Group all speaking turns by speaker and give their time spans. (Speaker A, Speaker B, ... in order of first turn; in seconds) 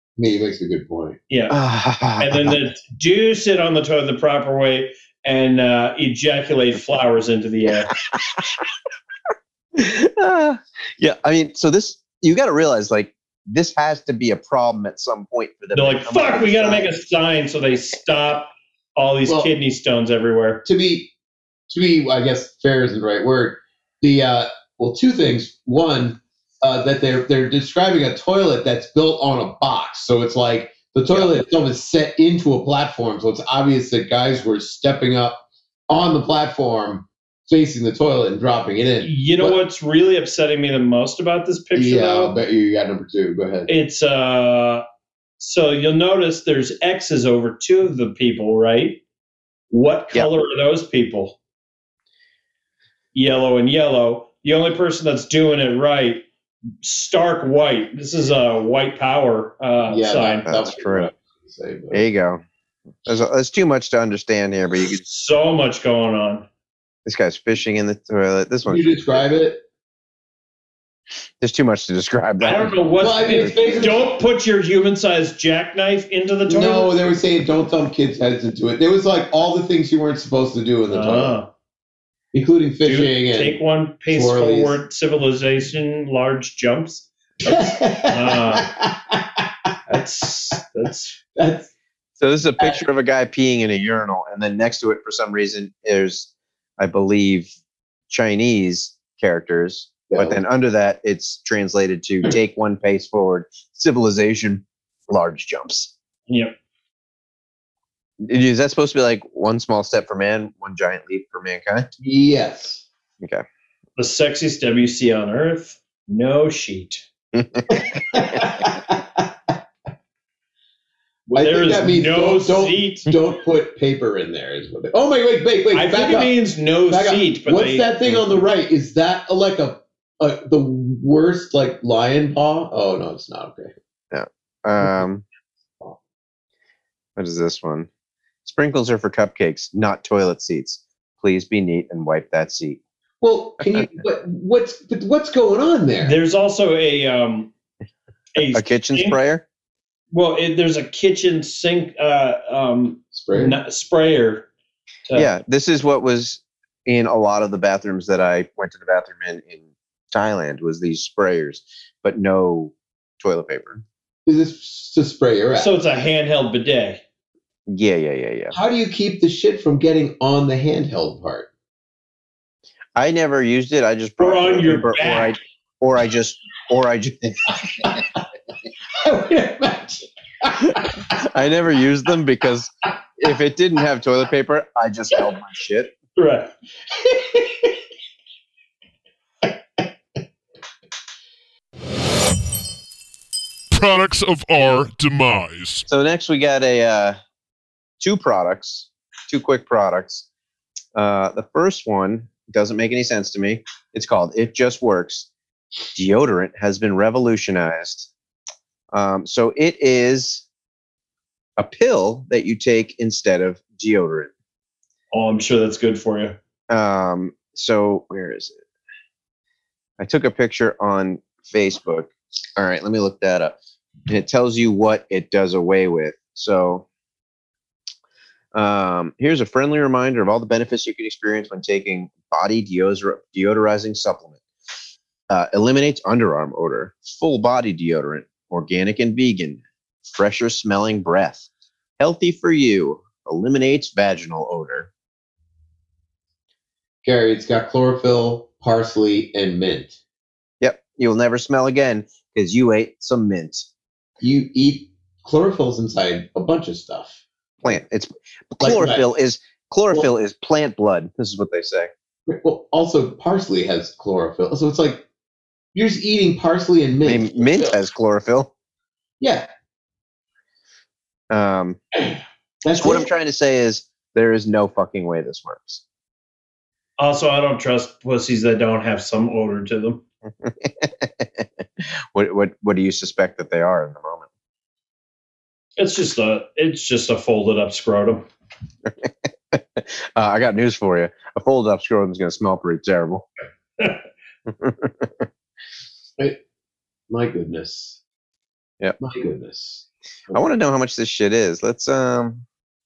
Speaker A: 0.2-1.2, 19.2-19.5, 20.6-21.1, 21.7-39.5, 41.7-43.7, 59.9-62.1, 68.6-69.6, 73.0-74.1, 76.5-81.4, 82.3-83.6, 84.1-84.8, 87.4-89.7, 91.3-91.7, 100.1-100.4, 112.0-112.8, 117.7-119.6, 121.3-126.3, 126.9-133.7, 143.2-146.2, 153.1-153.6, 164.2-165.7, 168.5-171.5, 178.9-181.1, 186.9-187.8, 189.4-189.9, 247.0-250.0, 254.2-257.2, 258.6-259.0, 262.3-265.0, 265.7-267.8, 269.2-269.5, 272.0-273.1, 297.1-298.0, 299.0-300.4
Speaker B: 1.3-1.6, 2.2-7.9, 15.7-20.6, 39.0-42.3, 43.7-44.8, 45.4-49.0, 49.7-51.4, 53.1-56.2, 56.8-60.5, 64.9-66.5, 72.4-76.9, 80.9-81.5, 82.8-88.7, 89.9-91.1, 106.3-106.5, 114.0-117.0, 121.4-123.1, 125.7-127.9, 146.0-147.5, 148.3-149.2, 150.1-154.5, 155.1-155.3, 165.6-167.0, 174.2-175.3, 186.2-186.5, 215.1-216.4, 277.0-280.0, 285.8-288.2
Speaker C: 1.5-2.5, 8.1-8.4, 9.7-16.9, 60.5-61.1, 61.9-62.4, 63.0-65.0, 67.0-69.1, 71.4-73.9, 92.2-97.5, 98.1-105.9, 108.2-111.9, 117.3-118.5, 134.1-135.2, 137.2-137.9, 138.4-142.8, 148.5-149.4, 155.1-163.8, 167.7-168.6, 172.9-178.1, 180.7-185.9, 195.9-197.2, 198.0-200.2, 200.9-205.3, 205.9-208.1, 208.9-210.4, 211.6-214.3, 216.7-218.5, 220.0-223.6, 224.1-226.8, 228.5-234.4, 235.3-241.4, 242.0-244.9, 250.6-253.7, 257.6-261.9, 267.0-268.5, 271.3-271.8, 272.7-275.8, 280.4-284.2, 288.9-293.2, 294.5-295.3, 300.3-302.4
Speaker D: 193.7-195.9